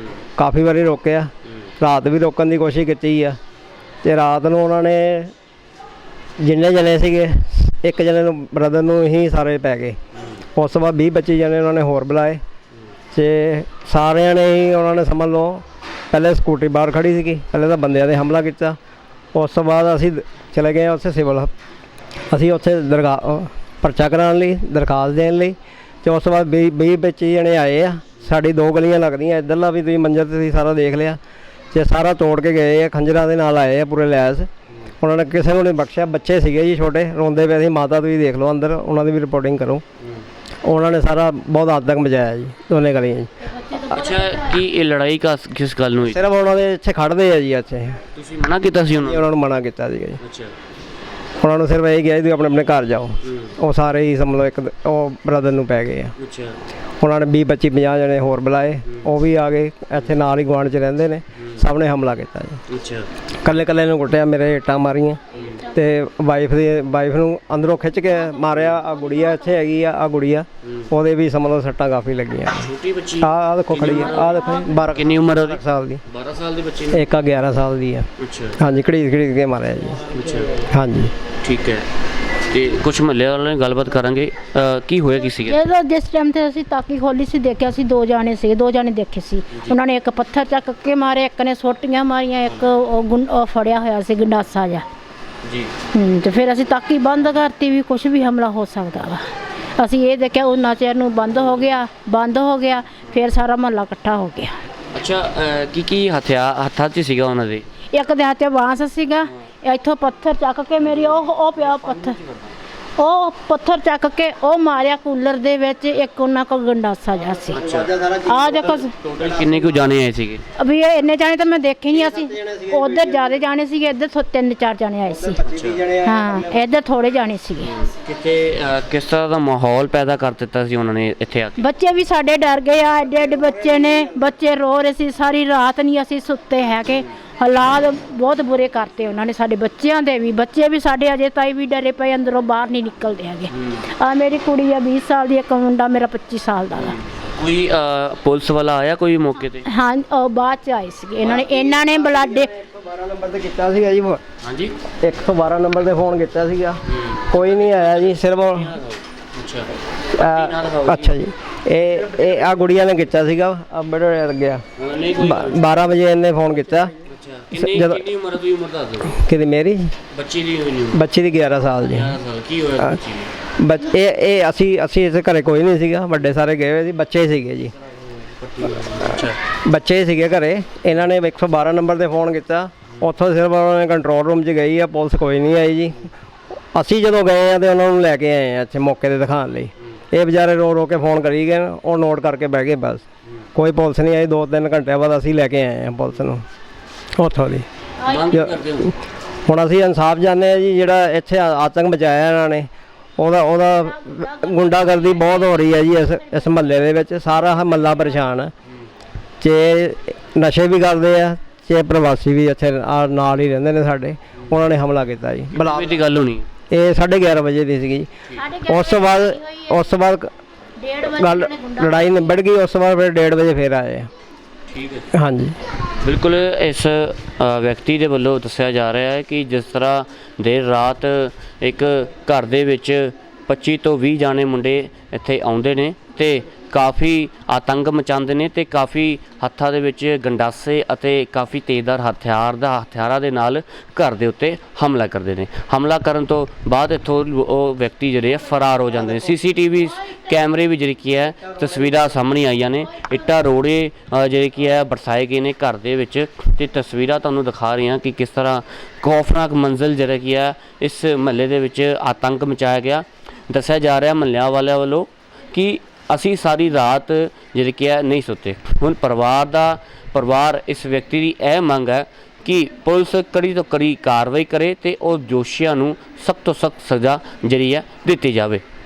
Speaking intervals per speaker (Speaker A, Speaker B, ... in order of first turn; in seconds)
Speaker A: 0.4-3.4, 4.0-5.3, 6.4-10.0, 10.6-12.4, 13.1-18.8, 19.4-21.5, 22.3-31.2, 31.7-34.5, 35.0-39.8, 40.7-43.3, 46.0-48.0, 49.0-50.2, 51.4-56.1, 57.0-62.6, 63.4-65.2, 65.7-72.7, 73.2-76.0, 76.9-80.0, 80.7-81.1, 117.5-119.8, 121.9-123.5, 125.1-126.7, 133.0-134.3, 151.2-154.2, 155.0-158.8, 160.2-164.6, 165.2-166.9, 167.5-168.0, 169.1-169.9, 170.9-172.2, 173.6-177.7, 179.5-186.1, 186.7-196.4, 197.2-197.7, 198.3-198.9, 199.5-208.5, 209.4-215.9, 216.7-218.1, 218.7-220.3, 221.1-224.1, 225.1-225.6
Speaker B: 43.5-44.3, 85.4-94.8, 95.9-99.2, 99.8-104.5, 107.9-112.2, 113.0-117.6, 118.3-118.9, 120.6-125.4, 126.0-127.7, 131.6-147.0, 149.7-152.5, 198.1-198.3, 204.1-205.6, 218.3-219.9, 220.8-222.1
Speaker C: 43.8-46.3, 48.1-49.3, 50.2-50.5, 53.2-53.6, 56.2-56.6, 61.4-61.6, 62.7-63.1, 65.3-65.7, 70.6-70.9, 72.6-77.0, 78.2-78.6, 80.1-80.7, 81.4-81.9, 82.5-85.7, 95.4-95.7, 104.9-107.6, 110.8-112.5, 117.5-117.9, 119.0-120.4, 125.4-125.8, 127.6-131.7, 146.8-149.7, 154.4-154.8, 156.9-161.2, 164.8-165.8, 167.1-169.2, 170.1-171.0, 171.9-173.3, 178.2-179.4, 198.0-198.9, 215.5-216.5, 224.7-225.1, 226.0-278.6